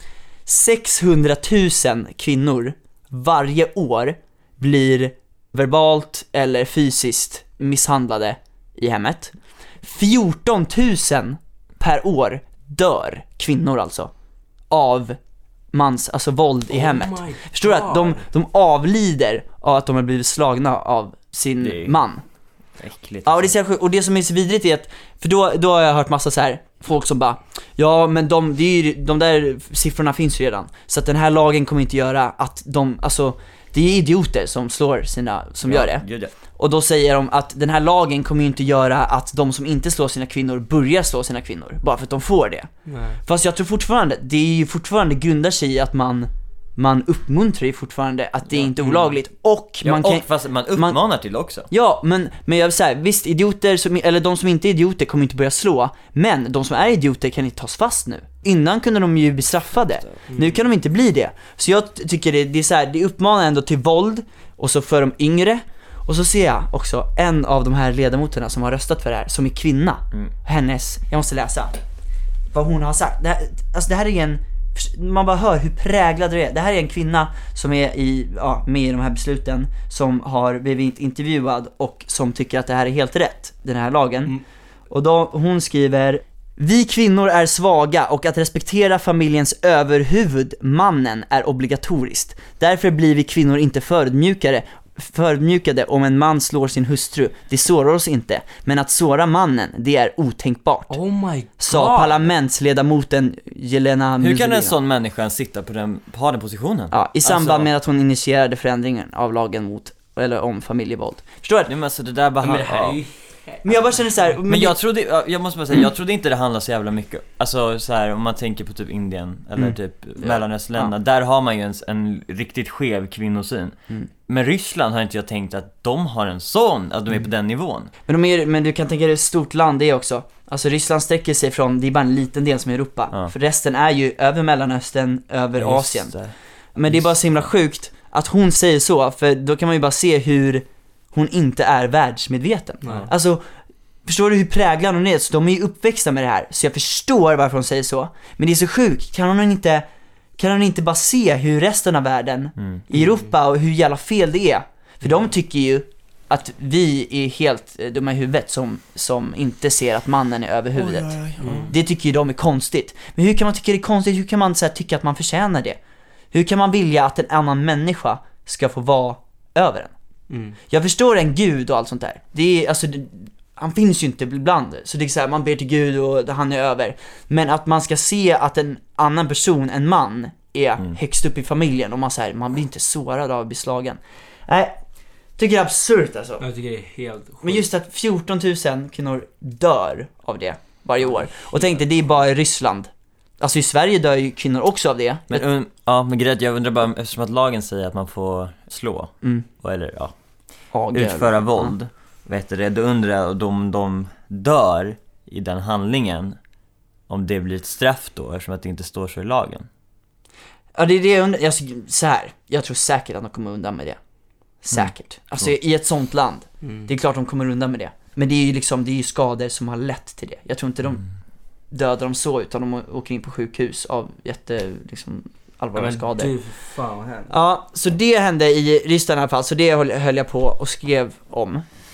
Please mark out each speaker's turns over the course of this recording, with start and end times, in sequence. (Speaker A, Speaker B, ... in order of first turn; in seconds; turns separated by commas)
Speaker A: 0.5-14.1, Speaker A: 14.7-15.2, Speaker A: 15.7-22.2, Speaker B: 16.7-18.3, Speaker C: 21.6-21.9, Speaker C: 22.8-23.5, Speaker A: 23.2-36.0, Speaker C: 35.6-36.3, Speaker A: 36.5-42.7, Speaker B: 42.9-43.2, Speaker A: 43.2-51.0, Speaker C: 49.8-51.7, Speaker A: 51.7-71.8, Speaker A: 72.5-84.3, Speaker A: 84.9-101.0, Speaker B: 100.9-102.3, Speaker A: 101.6-104.7, Speaker C: 104.2-107.6, Speaker A: 106.9-111.7, Speaker C: 111.7-113.0, Speaker B: 112.4-113.9, Speaker A: 113.6-114.8, Speaker C: 114.5-127.9, Speaker A: 128.1-136.1, Speaker C: 135.6-136.3, Speaker A: 136.7-143.4, Speaker C: 136.9-137.5, Speaker B: 142.8-143.1, Speaker A: 144.1-149.8, Speaker A: 150.4-165.8, Speaker C: 160.7-161.7, Speaker B: 161.4-161.7, Speaker A: 166.3-169.9, Speaker B: 170.3-170.6, Speaker A: 170.7-184.8, Speaker A: 185.4-186.4, Speaker B: 186.4-187.6, Speaker A: 187.4-195.4, Speaker B: 191.1-191.7, Speaker C: 195.3-200.1, Speaker A: 200.7-201.7, Speaker C: 200.9-206.4, Speaker C: 207.1-209.7, Speaker A: 210.7-214.0, Speaker A: 214.6-221.0, Speaker C: 214.7-215.5, Speaker B: 216.6-216.9, Speaker A: 221.7-226.3, Speaker B: 225.7-227.3, Speaker A: 227.3-231.6